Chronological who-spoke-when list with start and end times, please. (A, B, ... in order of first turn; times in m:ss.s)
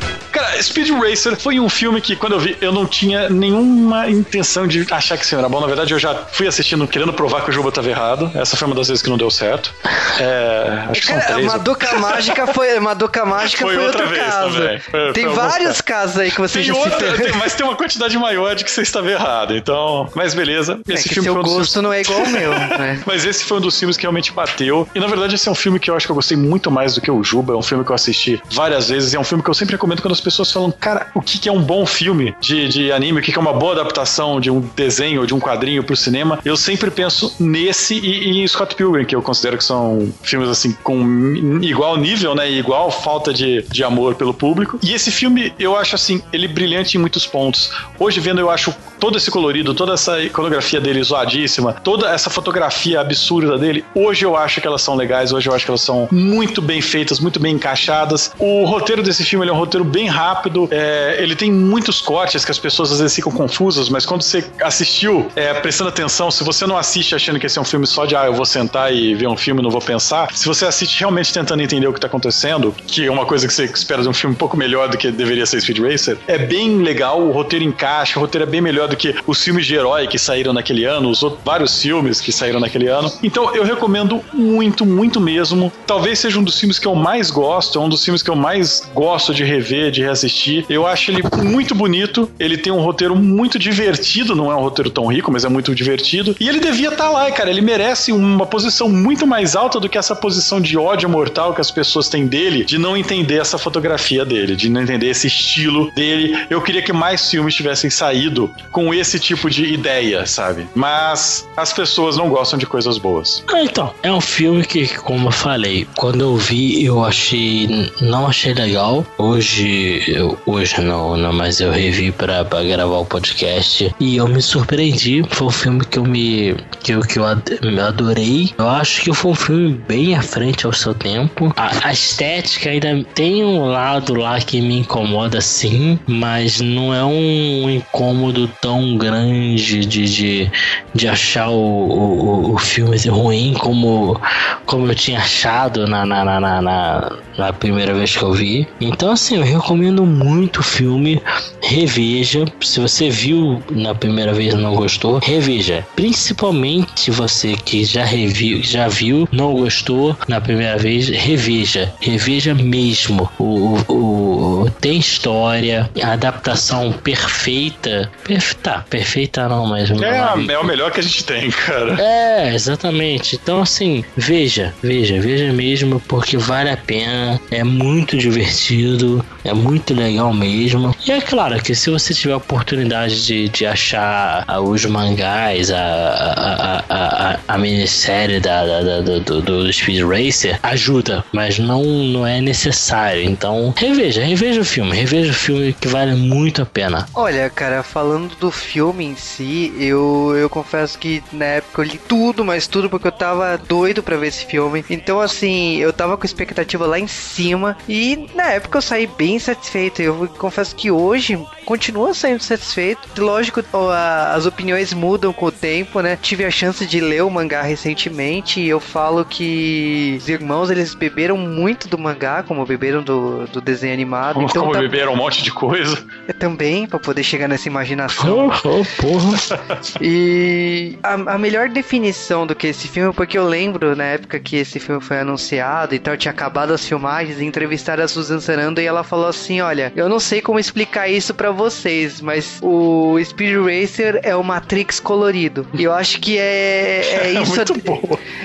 0:00.3-0:12.6 A
0:10.9-0:17.4 B
0:13.4-0:15.8 A
0:16.4-1:53.4 A
0:20.9-0:23.0 B
1:53.5-2:50.7 C
2:50.0-2:52.0 A
2:52.0-3:17.1 C
3:17.1-3:44.9 B
3:44.3-3:46.0 A
3:46.3-3:48.6 B
3:48.1-3:49.5 C
3:49.5-3:49.8 A
3:50.0-4:07.9 B
4:07.0-4:08.2 A